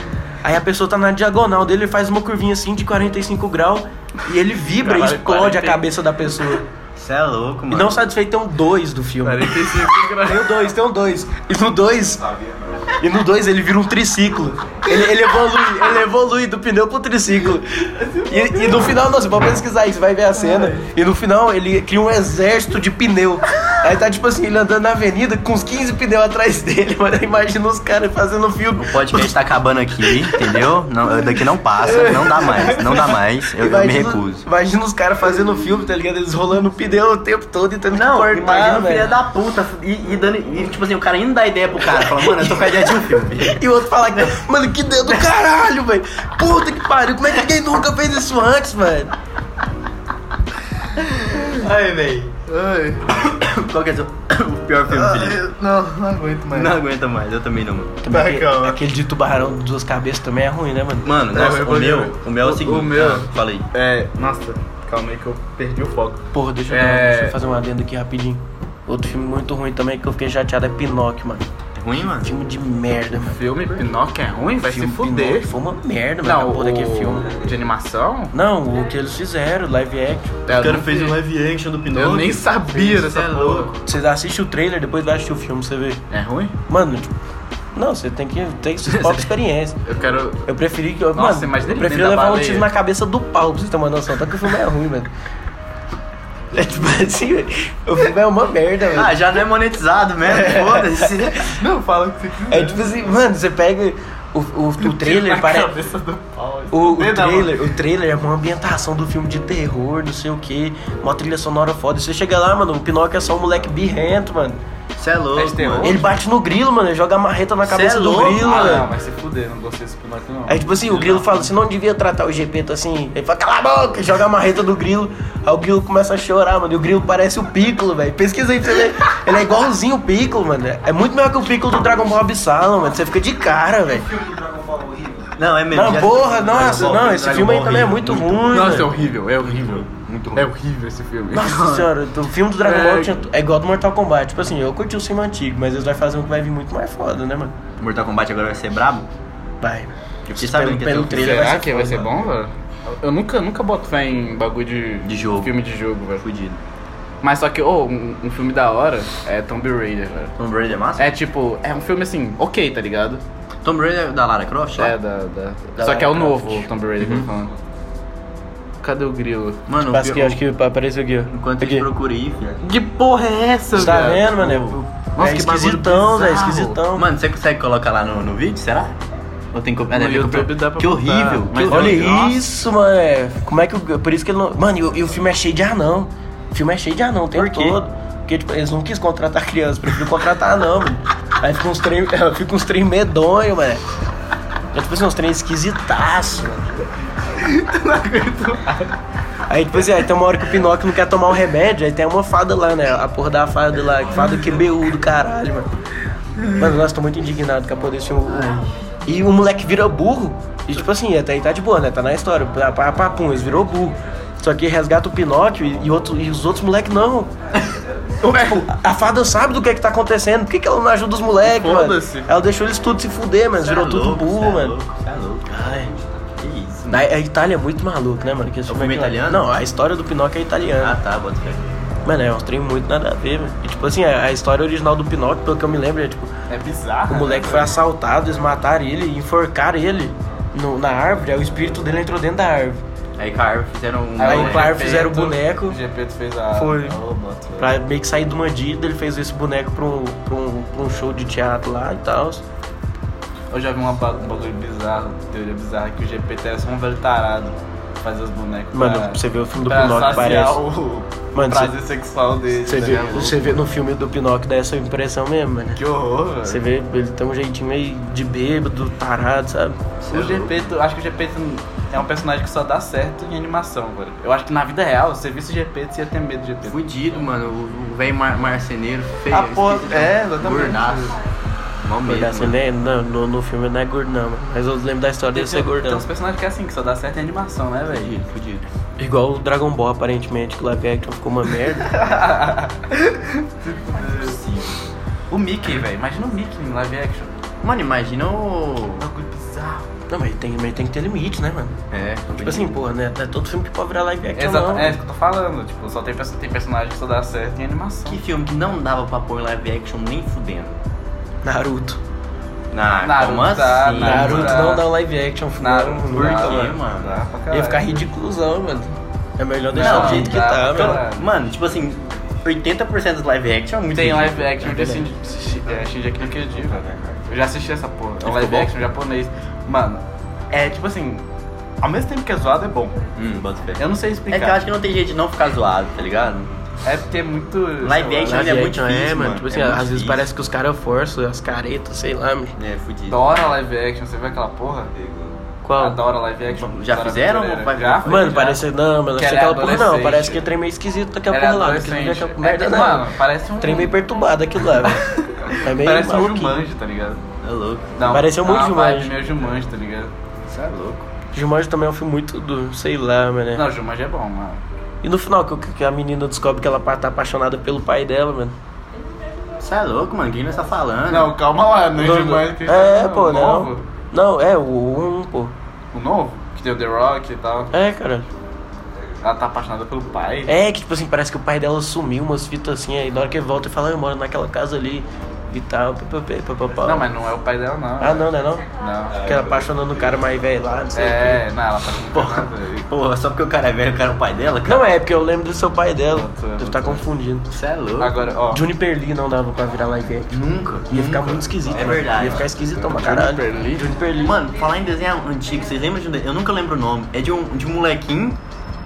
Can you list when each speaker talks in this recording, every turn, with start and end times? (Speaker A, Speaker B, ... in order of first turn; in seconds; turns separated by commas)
Speaker A: 0.4-6.7, Speaker B: 4.8-5.8, Speaker C: 7.0-8.0, Speaker A: 7.7-12.2, Speaker B: 9.2-10.7, Speaker D: 12.1-12.9, Speaker A: 13.0-29.4, Speaker B: 17.9-19.0, Speaker B: 20.3-20.9, Speaker C: 28.8-34.4, Speaker A: 30.0-30.5, Speaker A: 31.8-39.1, Speaker B: 31.9-32.8, Speaker C: 37.9-44.4, Speaker A: 41.9-49.1, Speaker C: 45.0-45.3, Speaker B: 51.2-51.6, Speaker C: 51.5-52.4, Speaker B: 52.5-53.2, Speaker C: 53.1-55.4, Speaker B: 54.9-56.8, Speaker C: 56.5-58.0, Speaker A: 58.0-61.1, Speaker B: 58.1-58.8, Speaker C: 61.0-63.7, Speaker B: 61.3-67.4, Speaker A: 66.3-71.5, Speaker C: 71.8-72.3, Speaker A: 72.0-73.4, Speaker B: 73.2-75.5, Speaker A: 74.6-77.3, Speaker B: 76.2-78.3, Speaker A: 78.3-80.4, Speaker B: 80.5-81.2, Speaker C: 80.5-83.8, Speaker B: 81.9-83.7, Speaker A: 83.8-86.0, Speaker B: 86.1-86.5, Speaker A: 86.7-87.1, Speaker A: 87.7-89.8, Speaker B: 89.0-89.2, Speaker B: 89.8-90.4, Speaker A: 90.4-95.1, Speaker B: 91.1-92.7, Speaker A: 96.5-99.2, Speaker C: 98.9-101.5, Speaker A: 100.2-101.5, Speaker B: 101.4-103.0, Speaker A: 102.5-105.7, Speaker B: 104.8-107.6, Speaker A: 106.7-114.6, Speaker C: 115.0-116.0, Speaker B: 115.3-116.1, Speaker A: 115.8-118.9, Speaker C: 117.6-118.8, Speaker B: 118.3-121.5, Speaker A: 120.5-134.1, Speaker D: 133.8-135.3, Speaker C: 135.4-140.5, Speaker A: 135.7-138.9, Speaker B: 138.5-141.9, Speaker A: 141.3-147.6, Speaker B: 142.6-143.2, Speaker C: 147.8-149.1, Speaker A: 149.6-152.1, Speaker C: 150.2-151.6, Speaker B: 151.0-156.2, Speaker C: 155.0-155.5, Speaker C: 156.2-156.6, Speaker B: 157.2-160.3, Speaker C: 160.4-161.1, Speaker B: 161.0-163.2, Speaker C: 163.6-164.9, Speaker B: 164.8-167.5, Speaker A: 165.8-166.6, Speaker C: 167.0-167.3, Speaker B: 168.8-169.6, Speaker C: 169.7-170.4, Speaker A: 169.8-171.9, Speaker C: 171.3-172.5, Speaker B: 172.6-176.8, Speaker A: 173.7-177.1, Speaker C: 176.9-178.9, Speaker C: 179.5-182.4, Speaker B: 179.9-182.1, Speaker A: 181.7-193.8, Speaker C: 187.3-187.8, Speaker A: 194.7-196.8, Speaker B: 197.3-198.9, Speaker A: 199.5-205.7, Speaker B: 206.4-206.7, Speaker A: 206.6-217.3, Speaker C: 208.3-208.7, Speaker B: 218.2-218.7, Speaker A: 218.2-224.8, Speaker B: 221.4-222.3, Speaker C: 223.5-225.6, Speaker A: 225.5-225.9, Speaker C: 226.4-227.0, Speaker A: 226.9-231.0, Speaker C: 228.7-229.5, Speaker C: 230.8-231.6, Speaker A: 232.0-236.3, Speaker B: 236.5-237.7, Speaker A: 237.1-242.8, Speaker C: 243.2-244.9, Speaker B: 244.2-247.7, Speaker A: 244.2-245.8, Speaker A: 246.5-247.0, Speaker A: 247.6-252.4, Speaker B: 253.5-263.6, Speaker A: 258.7-260.6, Speaker A: 261.3-261.7, Speaker A: 262.6-265.8, Speaker B: 265.8-266.6, Speaker A: 266.4-269.8, Speaker C: 270.0-270.7, Speaker B: 270.1-276.8, Speaker C: 276.6-281.1, Speaker B: 279.3-281.1, Speaker C: 281.8-282.6, Speaker A: 282.0-286.1, Speaker B: 285.3-288.2, Speaker C: 287.9-288.6, Speaker A: 289.0-291.9, Speaker B: 291.8-294.4, Speaker C: 294.1-294.7, Speaker B: 295.3-297.3, Speaker C: 297.6-299.0, Speaker B: 299.0-299.9, Speaker A: 300.1-301.8, Speaker C: 301.9-302.7, Speaker A: 302.4-305.0, Speaker B: 304.4-308.2, Speaker C: 308.0-310.8, Speaker A: 311.4-312.0, Speaker C: 312.7-314.8, Speaker B: 313.0-314.9, Speaker A: 314.0-316.7, Speaker B: 315.6-318.1, Speaker C: 316.1-317.2, Speaker A: 317.5-321.0, Speaker B: 319.7-321.3, Speaker C: 319.7-324.6, Speaker B: 323.9-331.2, Speaker A: 324.6-325.0, Speaker D: 326.7-327.2, Speaker C: 328.2-328.7, Speaker B: 331.8-333.0, Speaker C: 333.1-336.5, Speaker B: 333.8-334.7, Speaker B: 336.8-338.6, Speaker C: 337.8-340.3, Speaker A: 338.2-342.6, Speaker C: 342.6-343.4, Speaker B: 343.1-344.9, Speaker D: 344.9-345.3, Speaker A: 345.6-346.0, Speaker B: 345.8-348.6, Speaker C: 346.5-348.4, Speaker A: 348.0-353.1, Speaker B: 349.1-350.4, Speaker B: 351.3-354.0, Speaker A: 353.6-356.6, Speaker B: 354.7-357.2, Speaker C: 357.4-358.0, Speaker B: 357.9-360.1, Speaker A: 358.1-359.1, Speaker C: 360.5-361.1, Speaker A: 361.3-363.6, Speaker B: 363.5-364.6, Speaker A: 365.0-368.5, Speaker C: 369.6-371.4, Speaker B: 371.1-373.8, Speaker A: 372.0-375.5, Speaker B: 375.9-377.7, Speaker A: 377.7-378.3, Speaker B: 379.2-380.5, Speaker A: 380.4-387.1, Speaker B: 386.8-389.3, Speaker A: 388.0-388.7, Speaker D: 389.1-390.4, Speaker A: 389.2-391.4, Speaker B: 390.9-392.9, Speaker C: 392.1-394.9, Speaker A: 394.6-397.5, Speaker B: 396.1-397.0, Speaker C: 397.5-398.2, Speaker B: 398.0-398.6, Speaker A: 398.5-400.3, Speaker C: 400.3-402.5, Speaker A: 400.9-404.4, Speaker B: 402.1-403.9, Speaker C: 404.2-408.4